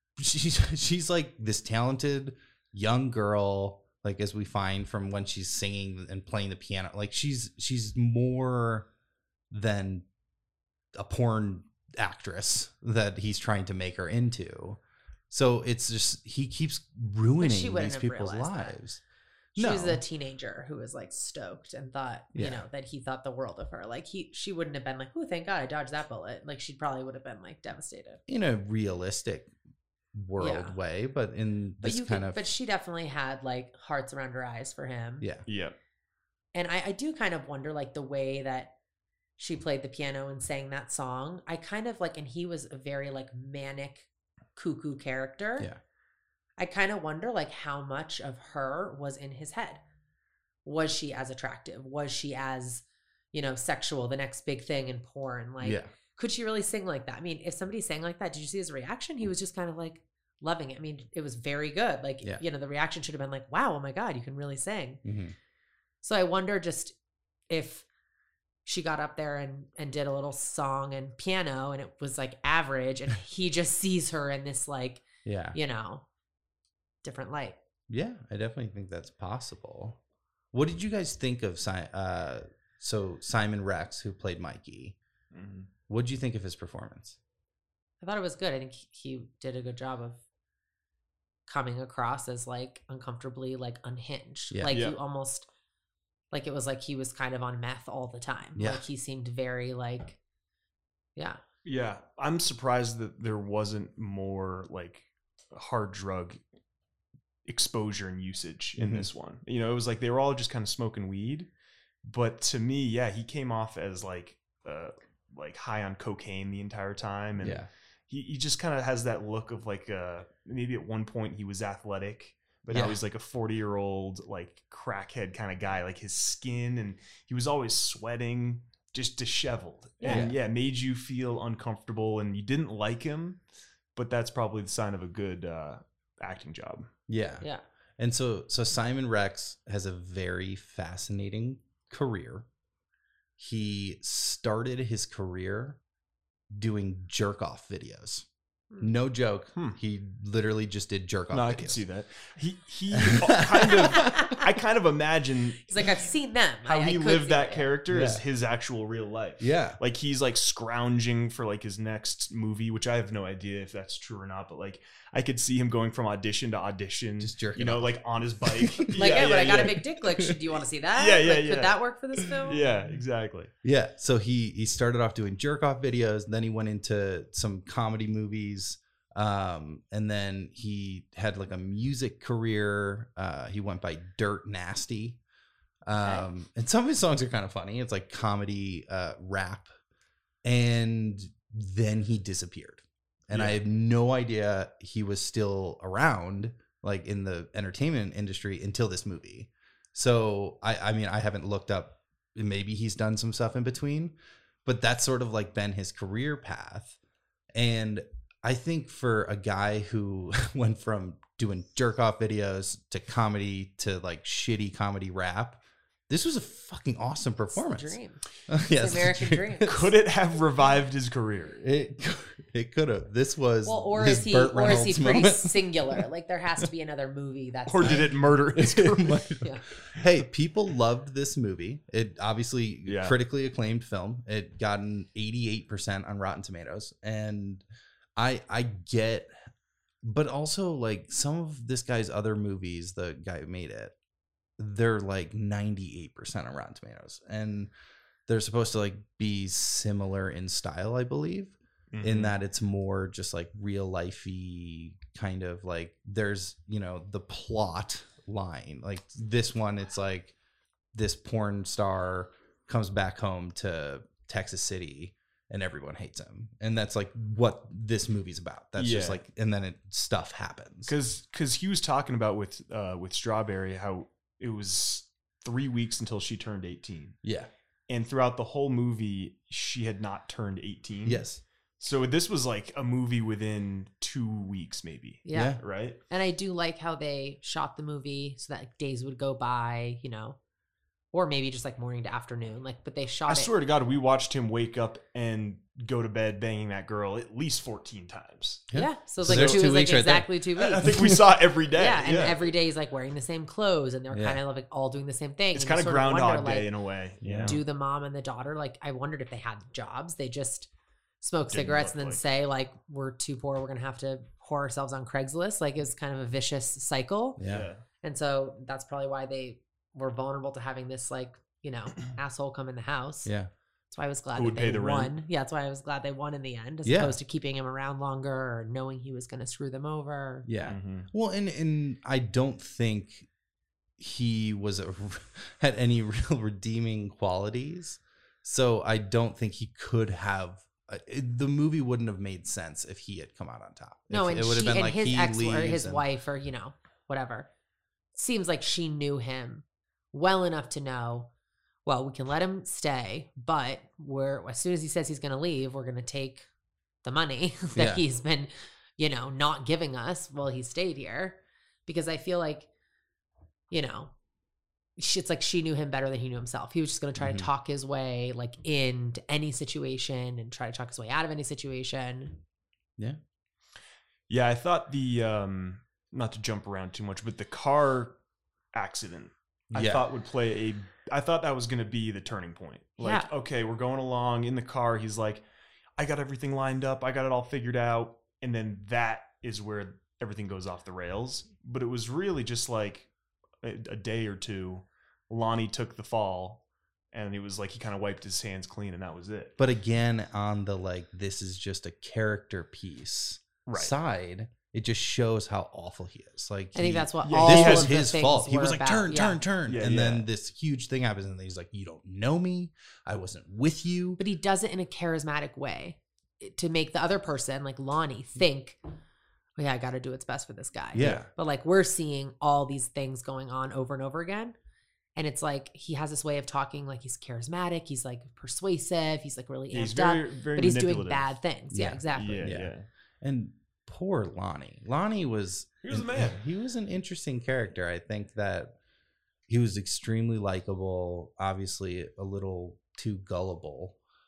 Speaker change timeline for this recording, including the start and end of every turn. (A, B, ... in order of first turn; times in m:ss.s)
0:00.2-0:08.9 A
0:09.5-0:10.1 A
0:10.9-0:19.0 A
0:17.4-0:18.8 B
0:19.6-0:20.0 A
0:19.6-0:28.2 B
0:22.3-0:22.6 A
0:28.3-0:29.5 A
0:30.2-0:32.5 A
0:30.4-0:30.8 B
0:31.8-0:35.3 B
0:35.5-0:35.8 C
0:36.5-0:38.7 B
0:39.4-0:45.7 B
0:46.6-0:49.8 B
0:50.6-1:05.0 B
0:55.6-0:55.9 A
1:05.0-1:05.4 A
1:06.0-1:06.9 B
1:07.5-1:07.9 B
1:08.6-1:16.0 B
1:15.2-1:15.6 A
1:17.0-1:17.6 B
1:17.9-1:20.0 A
1:20.5-1:25.0 A
1:25.3-1:25.7 C
1:25.9-1:27.2 A
1:28.0-1:30.2 B
1:31.5-1:35.5 B
1:34.5-1:34.8 A
1:34.7-1:35.0 C
1:36.3-1:40.2 B
1:38.6-1:38.8 A
1:41.6-1:46.4 C
1:47.4-1:51.5 C
1:48.8-1:49.1 A
1:52.0-2:13.4 C
1:57.4-1:57.7 A
2:02.7-2:03.0 A
2:10.0-2:10.3 B
2:10.1-2:10.4 A
2:14.0-2:16.9 C
2:17.1-2:17.5 A
2:18.0-2:22.5 A
2:23.4-2:25.8 A
2:26.5-2:28.3 A
2:28.8-2:31.8 A
2:31.3-2:36.0 C
2:32.9-2:34.4 A
2:34.0-2:34.4 B
2:35.7-2:37.8 B
2:36.7-2:49.8 C
2:37.9-2:38.2 A
2:39.4-2:39.8 A
2:47.2-2:47.9 A
2:48.4-2:50.4 A
2:49.0-2:52.6 B
2:50.9-2:51.8 C
2:52.4-2:52.8 A
2:52.5-2:53.5 C
2:53.6-3:05.2 A
3:05.9-3:09.7 A
3:10.4-3:27.0 A
3:13.3-3:13.6 C
3:27.5-3:39.9 A
3:37.5-3:39.9 B
3:39.7-3:41.6 C
3:41.6-3:46.0 A
3:43.6-3:48.2 B
3:47.7-3:49.2 C
3:47.8-3:57.6 A
3:49.4-3:49.7 B
3:52.9-3:53.2 C
3:58.2-3:59.3 A
4:00.0-4:04.0 A
4:04.6-4:07.7 A
4:08.3-4:20.4 A
4:11.9-4:12.4 C
4:20.9-4:30.9 A
4:28.8-4:29.2 C
4:30.9-4:37.2 C
4:37.2-4:37.5 A
4:37.9-4:41.2 C
4:41.0-4:41.4 A
4:41.8-4:46.0 C
4:45.2-4:50.4 B
4:45.3-4:45.6 A
4:51.1-4:53.5 B
4:53.3-4:58.7 C
4:58.7-5:01.3 A
4:58.7-5:00.9 B
4:59.2-4:59.7 C
5:00.6-5:02.5 C
5:01.7-5:06.7 B
5:04.1-5:04.4 A
5:05.5-5:07.6 C
5:07.2-5:07.6 A
5:07.5-5:10.7 B
5:11.2-5:17.4 B
5:11.5-5:12.2 C
5:17.4-5:17.7 A
5:17.5-5:17.8 C
5:18.0-5:23.3 B
5:23.9-5:30.5 B
5:24.4-5:25.1 C
5:26.8-5:27.2 A
5:30.5-5:33.3 A
5:30.7-5:31.1 C
5:34.0-5:46.0 A
5:44.1-5:47.5 B
5:48.1-5:51.3 B
5:51.8-5:56.5 B
5:57.0-6:02.7 B
5:57.8-5:58.0 A
6:03.7-6:04.1 B
6:05.0-6:12.4 B
6:07.2-6:07.5 A
6:14.3-6:18.2 C
6:18.7-6:25.4 C
6:19.7-6:20.1 A
6:23.0-6:23.3 B
6:26.0-6:33.1 C
6:33.6-6:39.5 C
6:39.6-6:54.2 A
6:43.7-6:43.9 C
6:46.8-6:49.4 B
6:47.3-6:47.9 C
6:49.7-6:50.3 C
6:54.2-6:58.8 B
6:59.6-7:04.6 B
7:00.9-7:01.3 A
7:01.0-7:01.3 C
7:05.2-7:12.6 B
7:09.7-7:11.4 C
7:11.7-7:18.8 A
7:12.1-7:12.9 C
7:15.8-7:16.4 C
7:19.5-7:24.0 A